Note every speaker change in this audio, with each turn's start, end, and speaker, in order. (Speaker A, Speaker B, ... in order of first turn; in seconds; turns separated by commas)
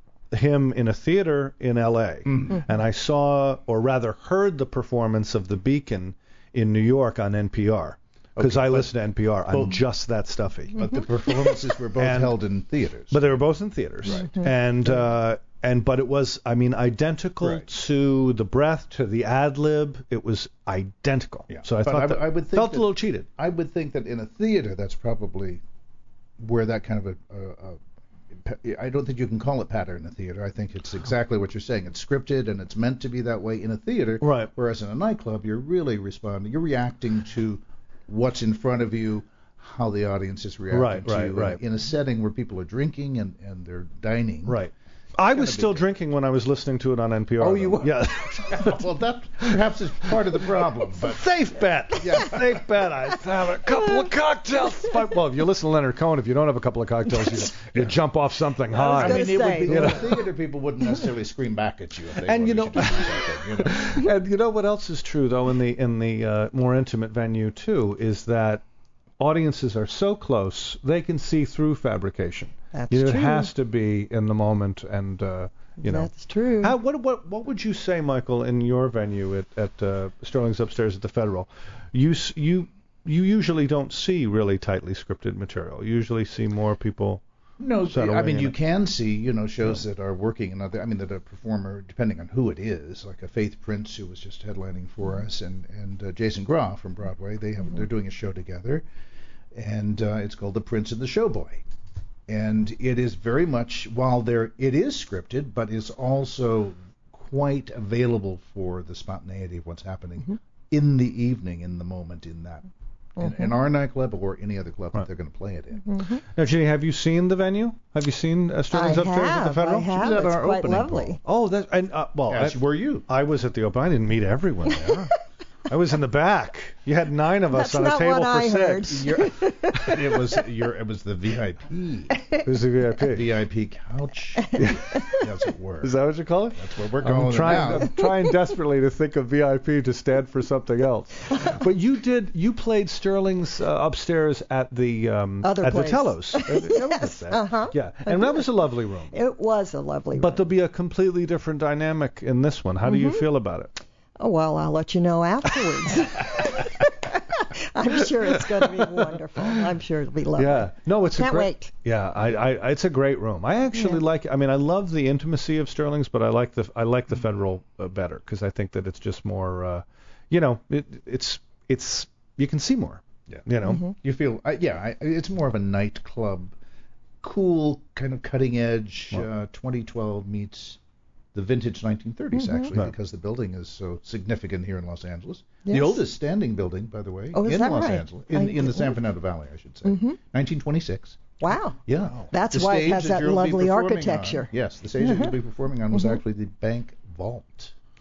Speaker A: 0.3-11.0, Speaker B: 2.3-2.6, Speaker B: 8.3-8.9, Speaker B: 9.5-9.8, Speaker B: 10.7-13.4, Speaker A: 12.0-12.4, Speaker A: 13.1-23.3, Speaker B: 14.0-14.3, Speaker B: 17.4-17.6, Speaker B: 21.5-25.6, Speaker B: 26.4-27.8, Speaker B: 28.3-44.6, Speaker A: 34.2-34.5, Speaker A: 40.7-41.6, Speaker A: 44.5-48.8, Speaker B: 45.3-45.9, Speaker B: 47.4-51.3, Speaker A: 51.0-60.2, Speaker B: 52.0-52.6, Speaker B: 58.7-64.0, Speaker C: 58.8-60.0, Speaker A: 62.2-68.6, Speaker A: 69.2-76.1, Speaker C: 72.7-73.5, Speaker C: 75.8-76.7, Speaker A: 76.6-87.2, Speaker B: 87.6-98.8, Speaker A: 87.9-88.5, Speaker B: 99.5-101.6, Speaker B: 102.3-112.7, Speaker C: 113.2-113.5, Speaker B: 113.2-115.8, Speaker C: 115.8-116.2, Speaker A: 116.3-119.9, Speaker C: 118.7-121.2, Speaker B: 119.9-121.2, Speaker A: 121.2-125.1, Speaker B: 122.3-123.0, Speaker A: 125.7-129.2, Speaker C: 127.5-130.2, Speaker B: 128.9-132.2, Speaker A: 132.4-133.3, Speaker B: 133.1-135.9, Speaker A: 135.8-149.2, Speaker B: 136.5-137.9, Speaker C: 138.0-138.3, Speaker C: 145.4-148.5, Speaker C: 149.1-150.4, Speaker A: 150.2-153.7, Speaker C: 152.8-153.2, Speaker C: 154.2-161.7, Speaker A: 160.3-173.9, Speaker C: 163.7-164.0, Speaker B: 173.3-176.5, Speaker C: 173.6-173.9, Speaker B: 177.2-180.8, Speaker B: 181.3-191.3, Speaker C: 182.3-182.7, Speaker C: 185.7-186.0, Speaker C: 187.3-189.0, Speaker C: 189.8-190.2, Speaker C: 191.4-191.8, Speaker B: 191.8-197.7, Speaker C: 192.3-195.3, Speaker C: 195.9-196.2